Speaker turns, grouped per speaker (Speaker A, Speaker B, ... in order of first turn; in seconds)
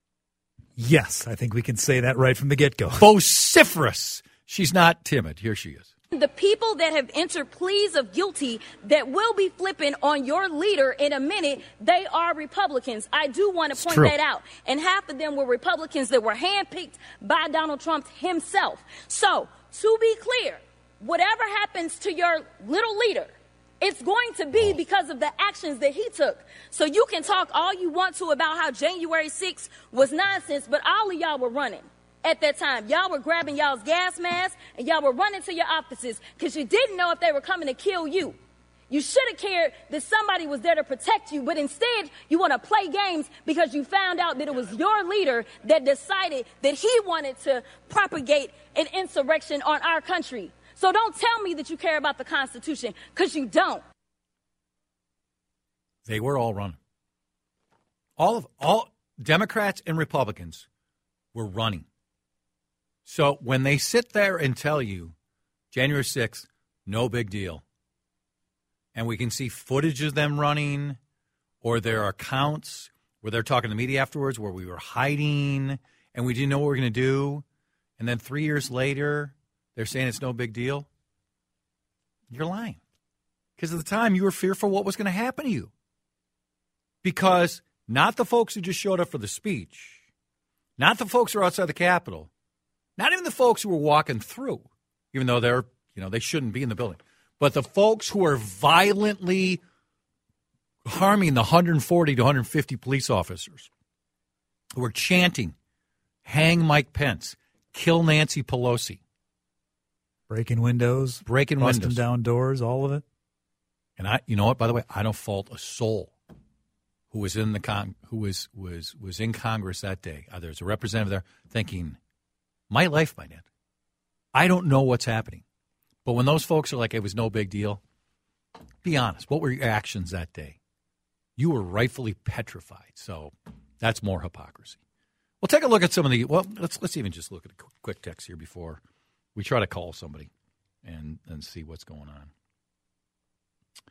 Speaker A: 0.8-3.1, 110.3-113.0
Speaker B: 3.0-5.9, 13.9-14.1, 56.1-56.8, 58.2-60.7, 61.3-61.9, 63.0-65.1, 65.7-67.6, 69.0-71.0, 71.6-77.4, 78.0-80.9, 82.3-82.8, 83.6-85.7, 87.0-90.0, 90.8-92.3, 93.0-99.6, 100.8-103.7, 104.8-105.5, 106.2-109.0, 111.2-112.0, 114.0-116.1, 117.1-122.0, 122.7-123.5, 124.3-125.4, 126.0-127.8, 128.8-130.6, 131.4-134.8, 135.4-138.8, 139.3-140.3, 140.8-142.3
Speaker C: 6.1-38.4, 38.9-53.8